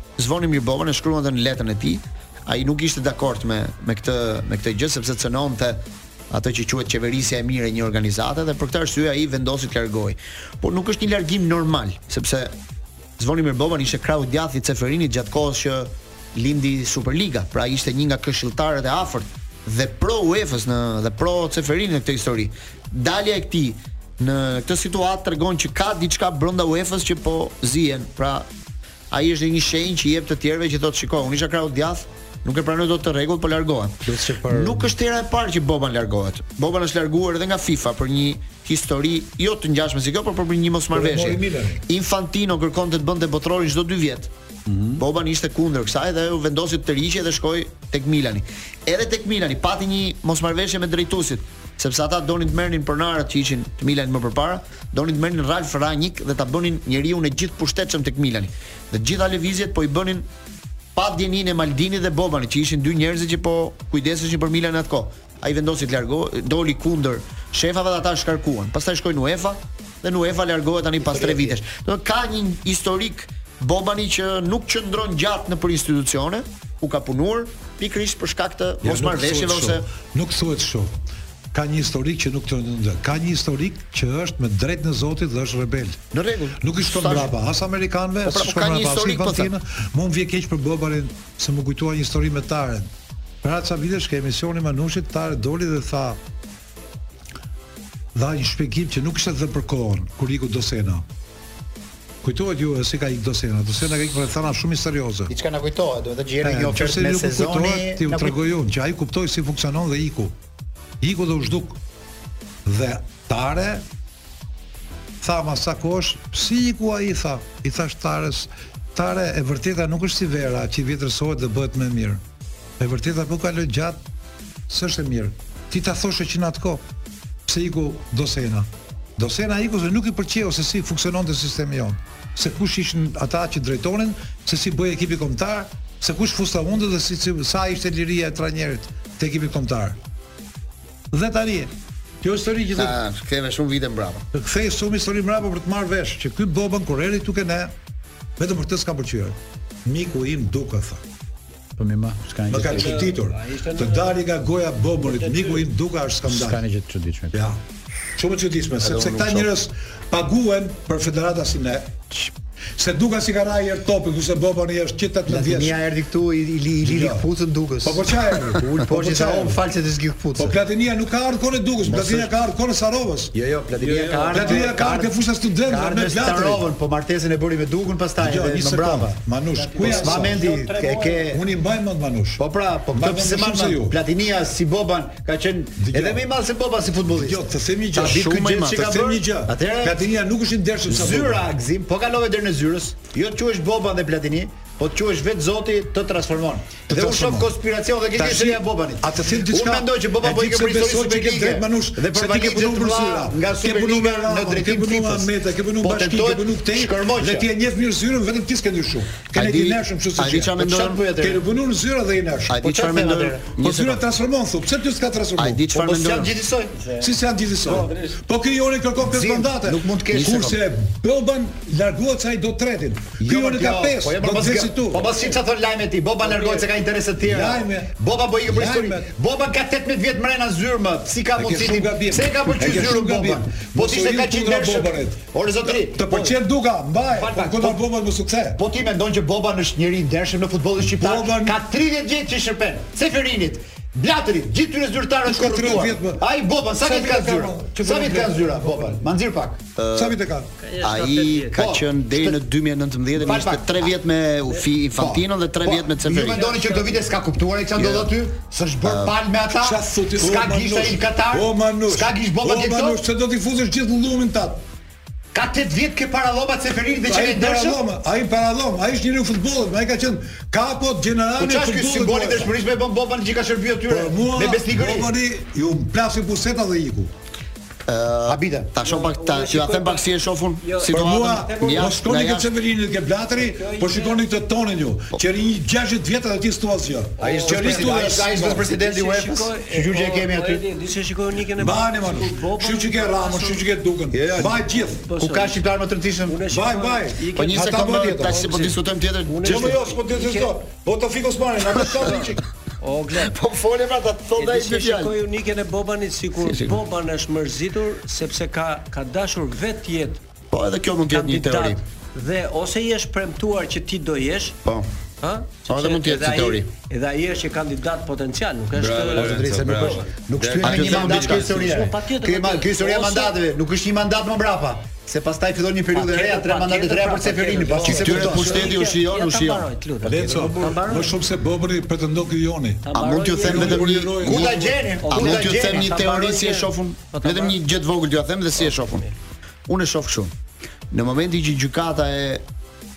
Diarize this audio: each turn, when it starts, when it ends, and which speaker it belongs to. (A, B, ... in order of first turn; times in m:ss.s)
0:00.2-0:12.5 A
0:13.2-0:28.5 A
0:29.1-0:44.3 A
0:34.0-0:34.9 B
0:40.9-0:41.8 C
0:44.6-0:45.0 B
0:45.0-1:00.3 A
1:00.9-1:19.8 A
1:11.1-1:11.6 B
1:18.8-1:20.9 C
1:21.5-1:26.0 C
1:26.1-1:27.3 A
1:26.6-1:32.9 C
1:28.2-1:29.5 A
1:33.4-1:36.2 C
1:38.1-1:41.0 C
1:42.2-1:45.3 C
1:45.3-1:48.4 B
1:46.4-1:50.4 C
1:51.0-1:51.8 C
1:52.6-1:53.8 C
1:55.2-2:02.2 C
2:02.8-2:04.0 C
2:04.7-2:06.8 C
2:07.5-2:20.0 C
2:21.1-2:23.0 C
2:22.7-2:24.2 A
2:24.3-2:27.7 C
2:28.4-2:31.0 C
2:31.8-2:33.1 B
2:32.5-2:36.6 C
2:32.6-2:34.2 D
2:35.0-2:35.6 D
2:36.3-2:37.4 B
2:37.3-2:37.6 C
2:38.2-2:42.0 C
2:38.8-2:39.5 A
2:42.8-2:45.8 C
2:45.3-2:50.6 B
2:46.8-2:47.2 C
2:47.8-2:49.6 C
2:50.4-2:53.3 C
2:51.8-2:52.3 B
2:53.3-2:59.2 B
2:53.8-2:54.7 D
2:54.3-2:56.6 C
2:58.2-3:02.4 C
2:59.5-3:01.2 D
2:59.8-3:01.4 B
3:02.4-3:10.1 B
3:02.9-3:04.0 C
3:05.8-3:06.2 C
3:07.1-3:11.4 C
3:08.0-3:08.9 A
3:10.8-3:27.5 B
3:16.9-3:17.5 C
3:18.1-3:30.6 C
3:29.3-3:31.0 A
3:30.6-3:31.4 B
3:31.2-3:32.6 C
3:32.5-3:34.0 A
3:32.6-3:33.6 B
3:33.6-3:35.6 C
3:35.4-3:36.3 A
3:35.7-3:36.8 B
3:36.8-3:38.2 D
3:37.0-3:45.1 C
3:39.0-3:40.5 B
3:40.1-3:40.5 A
3:43.2-3:56.4 B
3:46.2-3:46.7 D
3:47.2-3:47.9 C
3:48.5-3:49.1 C
3:51.3-3:58.6 C
3:57.1-3:57.8 B
3:58.6-4:09.6 B
4:01.0-4:01.6 C
4:05.2-4:06.2 C
4:06.8-4:09.0 C
4:09.8-4:10.2 A
4:09.9-4:10.5 C
4:10.6-4:11.6 D
4:10.8-4:16.4 A
4:11.6-4:12.4 B
4:13.1-4:13.9 B
4:15.0-4:23.0 B
4:16.2-4:17.1 D
4:17.8-4:18.1 A
4:18.8-4:19.2 A
4:19.6-4:24.6 C
4:25.3-4:27.8 B
4:27.0-4:32.5 C
4:31.4-4:35.1 B
4:33.9-4:37.1 C
4:37.9-4:42.5 A
4:38.3-4:38.7 B
4:38.8-4:42.0 D
4:40.9-4:48.6 C
4:43.3-4:44.3 D
4:47.2-4:53.6 D
4:47.2-4:50.6 B
4:51.6-4:55.0 C
4:54.1-4:56.4 B
4:54.4-4:55.6 D
4:56.2-5:00.5 D
4:56.4-4:58.5 C
4:57.4-4:59.7 A
4:59.4-5:02.4 C
5:01.8-5:03.4 D
5:03.2-5:05.2 A
5:04.4-5:10.2 D
5:06.4-5:06.8 A
5:10.5-5:11.8 A
5:11.1-5:14.6 D
5:15.2-5:20.1 D
5:15.7-5:16.7 A
5:18.8-5:21.8 A
5:19.1-5:28.7 B
5:20.6-5:23.3 D
5:25.9-5:31.1 D
5:27.8-5:29.7 A
5:27.8-5:28.5 C
5:30.0-5:32.8 C
5:30.1-5:30.5 B
5:32.8-5:34.5 D
5:32.9-5:34.5 A
5:33.4-5:34.8 C
5:34.2-5:36.0 B
5:35.0-5:37.6 D
5:35.1-5:39.1 A
5:38.7-5:39.1 D
5:39.7-5:40.3 A
5:40.9-5:42.4 A